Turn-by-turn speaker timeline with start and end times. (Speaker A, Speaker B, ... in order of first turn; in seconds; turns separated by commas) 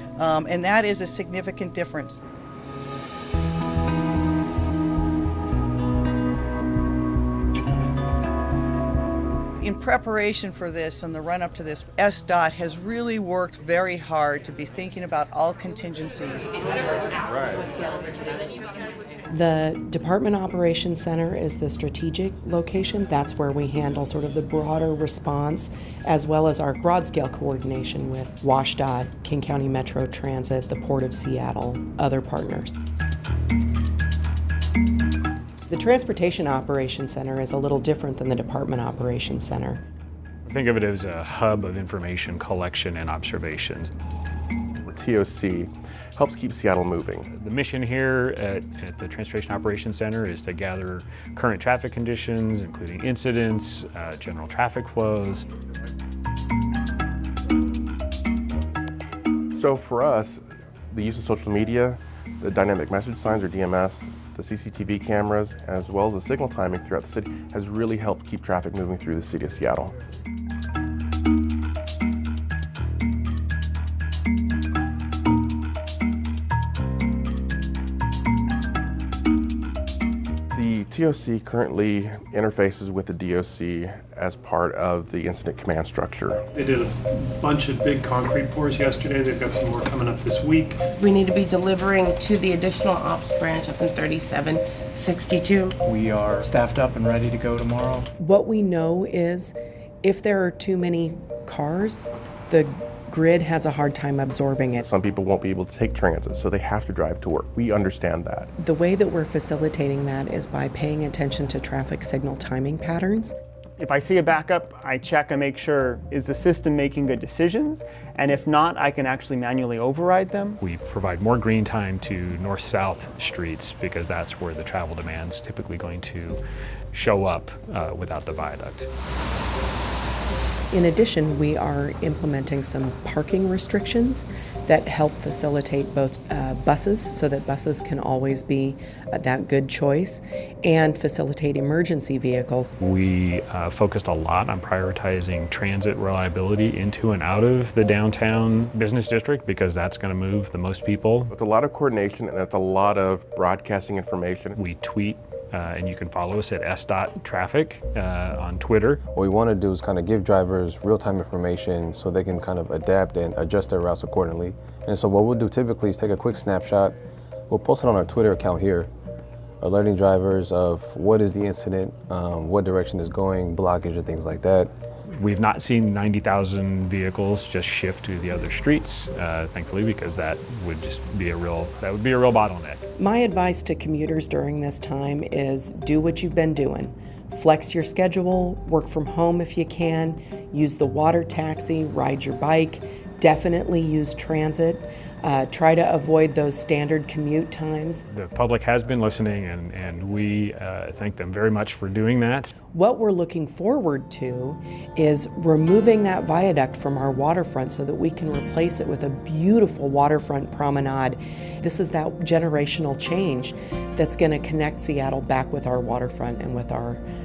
Speaker A: 0.2-2.2, Speaker A: 9.6-16.6, Speaker B: 19.3-32.8, Speaker B: 35.7-39.8, Speaker C: 40.4-43.9, Speaker D: 44.8-47.3, Speaker C: 47.3-55.5, Speaker D: 59.5-69.9, Speaker D: 80.5-86.4, Speaker E: 86.5-90.8, Speaker F: 91.0-95.8, Speaker G: 95.8-98.1, Speaker B: 98.2-104.8, Speaker D: 104.8-108.5, Speaker B: 108.6-113.3, Speaker H: 113.8-120.6, Speaker C: 120.6-126.4, Speaker C: 126.9-128.9, Speaker B: 130.7-142.7, Speaker C: 142.8-151.3, Speaker D: 151.3-154.6, Speaker C: 154.6-159.0, Speaker I: 159.1-166.9, Speaker I: 167.5-168.9, Speaker I: 169.6-174.7, Speaker C: 175.2-182.8, Speaker B: 183.0-198.0, Speaker C: 198.1-202.5, Speaker B: 202.7-217.0